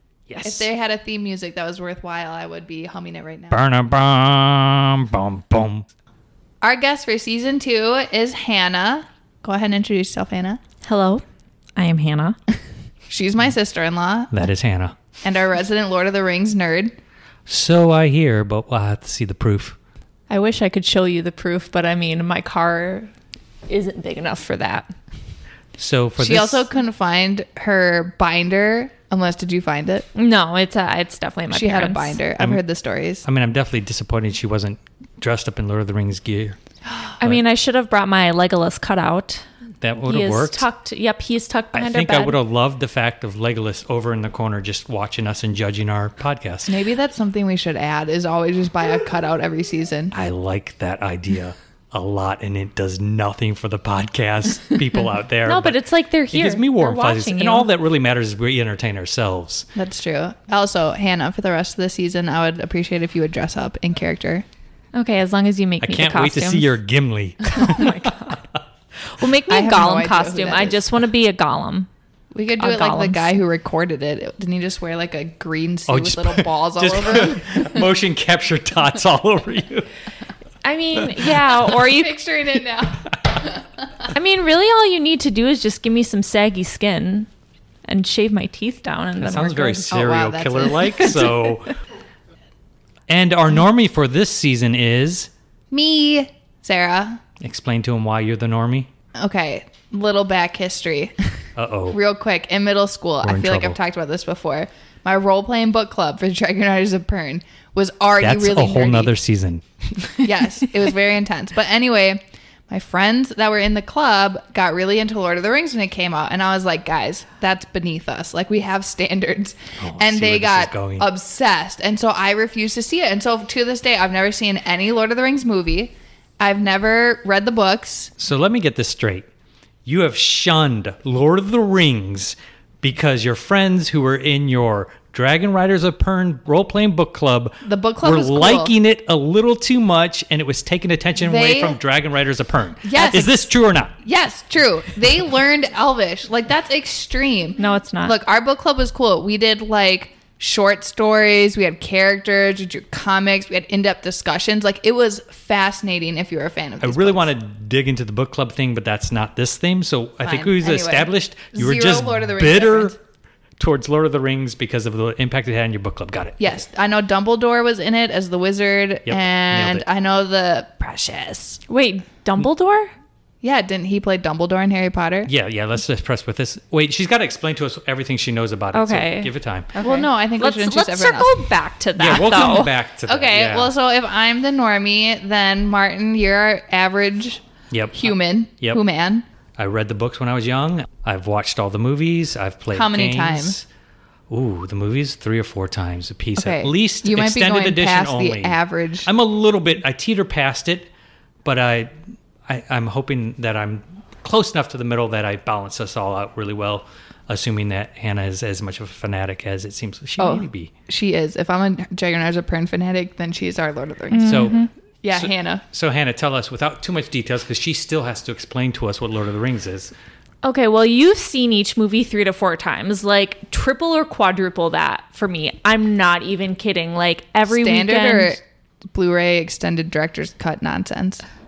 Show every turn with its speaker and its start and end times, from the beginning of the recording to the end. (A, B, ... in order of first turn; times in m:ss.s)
0:00.3-0:00.7 A
0:00.4-0:03.6 B
0:03.5-0:05.9 A
0:06.6-0:10.6 B
0:10.8-0:11.2 C
0:11.8-0:12.4 C
0:13.1-0:14.3 B
0:14.3-0:15.0 A
0:15.2-0:16.9 B
0:17.5-0:19.8 A
0:20.3-0:23.1 C
0:23.7-0:24.9 C
0:25.8-0:26.6 A
0:26.2-0:30.1 B
0:30.1-0:32.2 C
0:31.5-0:33.2 B
0:33.2-0:36.6 A
0:37.2-0:39.4 C
0:39.8-0:40.6 A
0:40.0-0:42.4 C
0:41.7-0:46.7 A
0:46.7-0:50.1 B
0:50.1-0:59.7 A
0:55.4-0:57.7 C
0:59.7-1:04.4 B
1:04.9-1:06.7 C
1:05.8-1:08.4 A
1:07.4-1:08.4 C
1:09.1-1:11.9 C
1:09.5-1:10.8 B
1:12.3-1:17.8 B
1:12.6-1:13.4 C
1:15.9-1:19.9 A
1:20.6-1:22.2 C
1:21.0-1:21.5 A
1:21.7-1:23.6 B
1:24.1-1:27.3 C
1:27.8-1:29.9 C
1:29.2-1:31.7 A
1:29.9-1:31.3 B
1:33.1-1:35.3 A
1:35.7-1:37.2 B
1:37.4-1:38.9 A
1:39.2-1:41.2 B
1:41.6-1:42.0 A
1:41.9-1:49.1 B
1:43.2-1:43.8 A
1:48.2-1:50.2 A
1:50.2-2:08.1 B
1:59.8-2:01.1 A
2:08.2-2:09.3 A
2:09.8-2:23.9 A
2:17.6-2:18.7 B
2:21.2-2:21.8 B
2:22.8-2:23.5 B
2:24.0-2:37.3 B
2:27.6-2:28.2 C
2:36.8-2:43.0 A
2:40.2-2:43.0 B
2:43.6-2:46.6 A
2:46.4-2:51.6 B
2:49.1-2:49.8 A
2:51.7-2:52.9 C
2:53.4-2:55.3 B
2:55.2-2:59.8 A
2:58.7-3:02.7 C
2:59.8-3:01.4 B
3:02.0-3:03.7 A
3:03.1-3:07.4 B
3:07.7-3:08.8 A
3:08.0-3:09.2 B
3:09.6-3:13.6 A
3:12.7-3:13.6 B
3:14.3-3:20.9 A
3:16.4-3:19.1 B
3:21.4-3:21.9 A
3:22.4-3:30.7 A
3:30.2-3:35.6 B
3:34.1-3:34.7 C
3:34.2-3:34.6 A
3:35.1-3:39.9 A
3:40.4-3:48.4 C
3:47.5-3:48.4 B
3:48.9-3:51.2 B